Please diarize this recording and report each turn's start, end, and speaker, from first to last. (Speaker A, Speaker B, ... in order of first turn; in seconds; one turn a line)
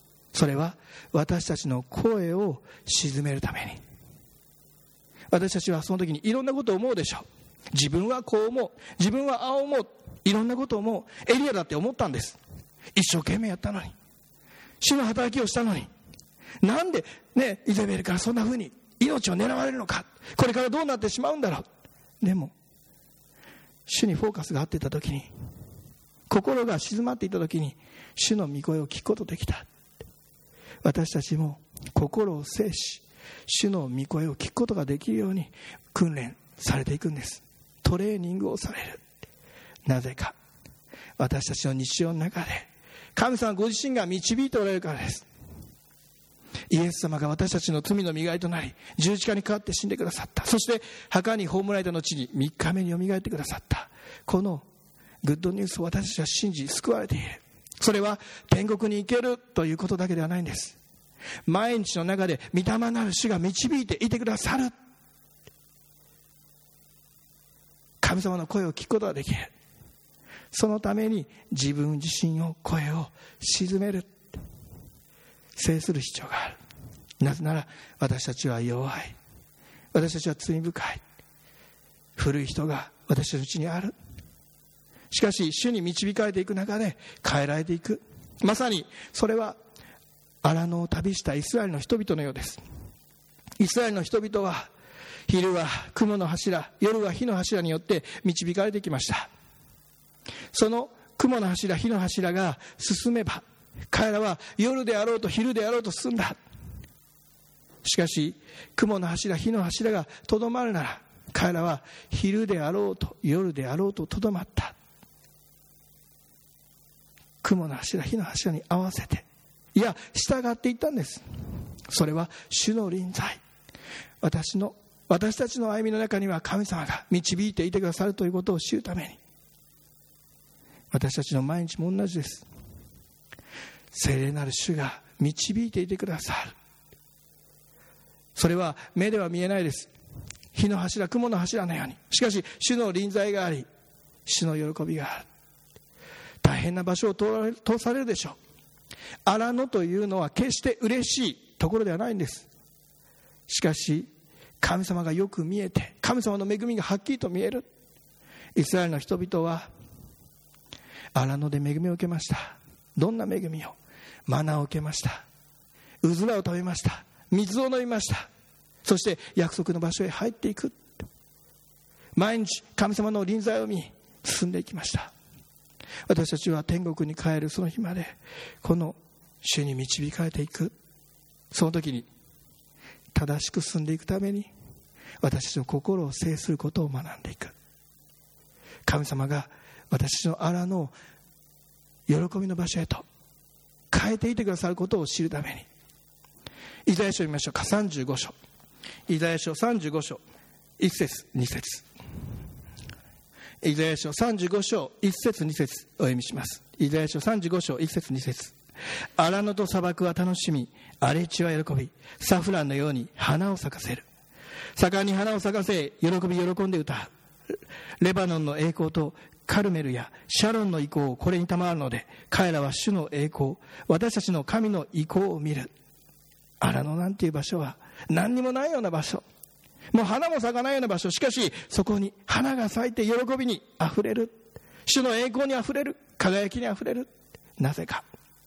Speaker A: 0.3-3.8
Speaker A: 5.3-12.4
Speaker A: 12.9-13.9
Speaker A: 14.8-15.9
Speaker A: 16.6-21.6
Speaker A: 22.2-22.5
Speaker A: 23.9-25.3
Speaker A: 26.3-29.7
Speaker A: 30.8-39.0
Speaker A: 39.9-40.4
Speaker A: 41.2-45.3
Speaker A: 46.7-54.6
Speaker A: 55.2-60.8
Speaker A: 61.5-64.7
Speaker A: 68.0-69.5
Speaker A: 70.5-74.3
Speaker A: 75.6-76.6
Speaker A: 77.2-79.2
Speaker A: 79.9-81.0
Speaker A: 82.2-83.9
Speaker A: 85.1-89.6
Speaker A: 90.4-92.6
Speaker A: 93.6-94.7
Speaker A: 95.3-99.3
Speaker A: 100.5-106.4
Speaker A: 107.8-114.8
Speaker A: 117.4-121.2
Speaker A: 121.9-123.4
Speaker A: 124.2-129.2
Speaker A: 130.9-132.4
Speaker A: 133.9-136.6
Speaker A: 138.3-139.9
Speaker A: 140.5-143.7
Speaker A: 144.3-145.3
Speaker A: 146.4-148.4
Speaker A: 149.2-152.5
Speaker A: 153.5-154.1
Speaker A: 154.6-157.7
Speaker A: 158.6-159.7
Speaker A: 161.1-165.3
Speaker A: 166.0-168.3
Speaker A: 168.8-170.9
Speaker A: 172.2-175.1
Speaker A: 176.1-180.8
Speaker A: 181.5-182.1
Speaker A: 183.1-184.5
Speaker A: 185.2-187.6
Speaker A: 188.9-190.9
Speaker A: 192.1-193.1
Speaker A: 193.9-195.7
Speaker A: 196.9-198.4
Speaker A: 199.1-200.2
Speaker A: 200.8-201.9
Speaker A: 203.6-208.6
Speaker A: 209.2-214.1
Speaker A: 214.8-217.1
Speaker A: 218.0-225.7
Speaker A: 226.6-229.2
Speaker A: 229.9-238.1